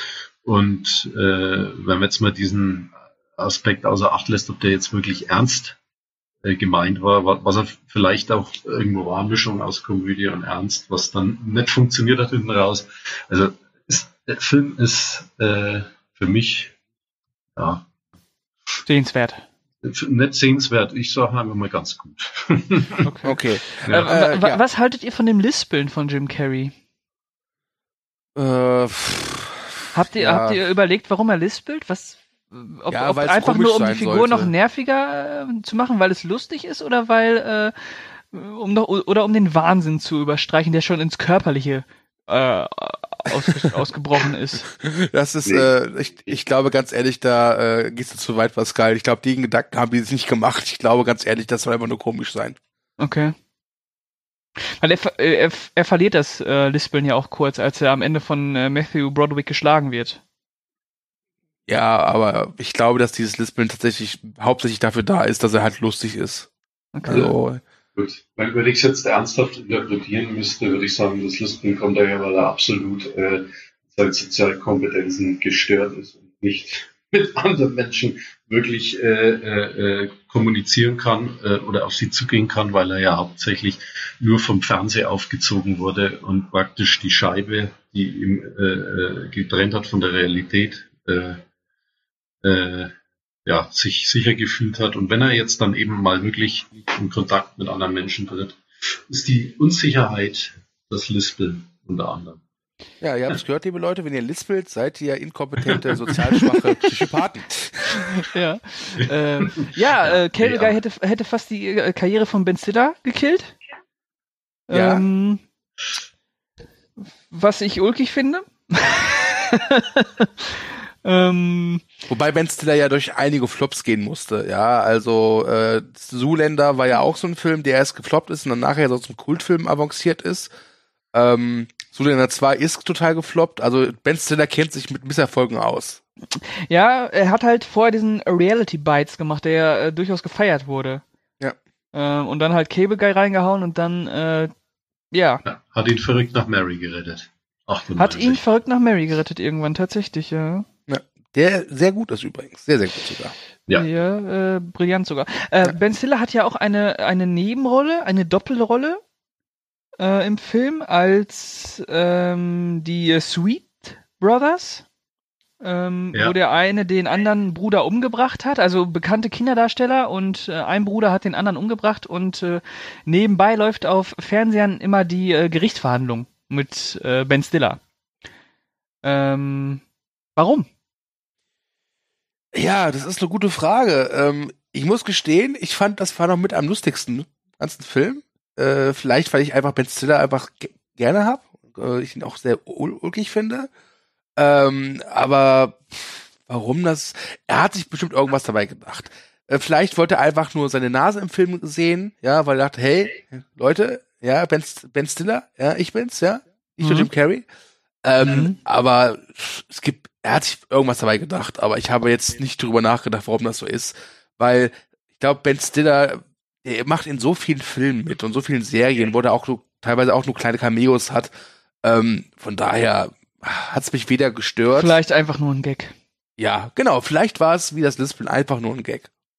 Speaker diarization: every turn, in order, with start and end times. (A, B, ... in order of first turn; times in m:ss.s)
0:00.4-0:05.8 A
0:06.4-0:16.7 A
0:17.6-0:17.8 A
0:18.8-0:19.4 B
0:19.8-0:23.0 A
0:23.0-0:26.7 B
0:23.2-0:24.6 C
0:23.8-0:24.1 A
0:28.4-0:30.6 C
0:29.9-0:37.7 B
0:32.9-0:34.5 C
0:38.3-0:44.7 B
0:44.8-0:52.6 C
0:53.0-0:53.3 B
0:54.8-1:00.2 B
1:01.7-1:06.5 C
1:06.9-1:07.3 B
1:07.1-1:07.6 C
1:08.0-1:31.4 A
1:32.4-1:32.9 A
1:33.4-1:42.4 A
1:43.0-1:48.0 C
1:48.0-1:53.6 B
1:50.4-1:50.7 A
1:54.7-1:55.4 B
1:54.7-1:55.0 C
1:57.3-2:01.8 B
2:02.1-2:10.5 C
2:11.1-2:16.0 C
2:16.7-2:21.0 B
2:21.9-2:24.5 B
2:25.1-2:25.4 B
2:25.4-2:28.4 A
2:28.0-2:30.6 B
2:30.9-2:33.3 C
2:33.7-2:39.0 B
2:40.0-2:44.8 B
2:45.6-2:57.8 B
2:59.0-2:59.8 B
3:00.4-3:00.7 B
3:02.5-3:13.7 C
3:14.4-3:27.4 C
3:26.8-3:27.1 B
3:28.0-3:41.3 C
3:28.2-3:28.6 B
3:41.8-3:45.0 C
3:44.7-3:45.9 B
3:46.4-3:49.1 C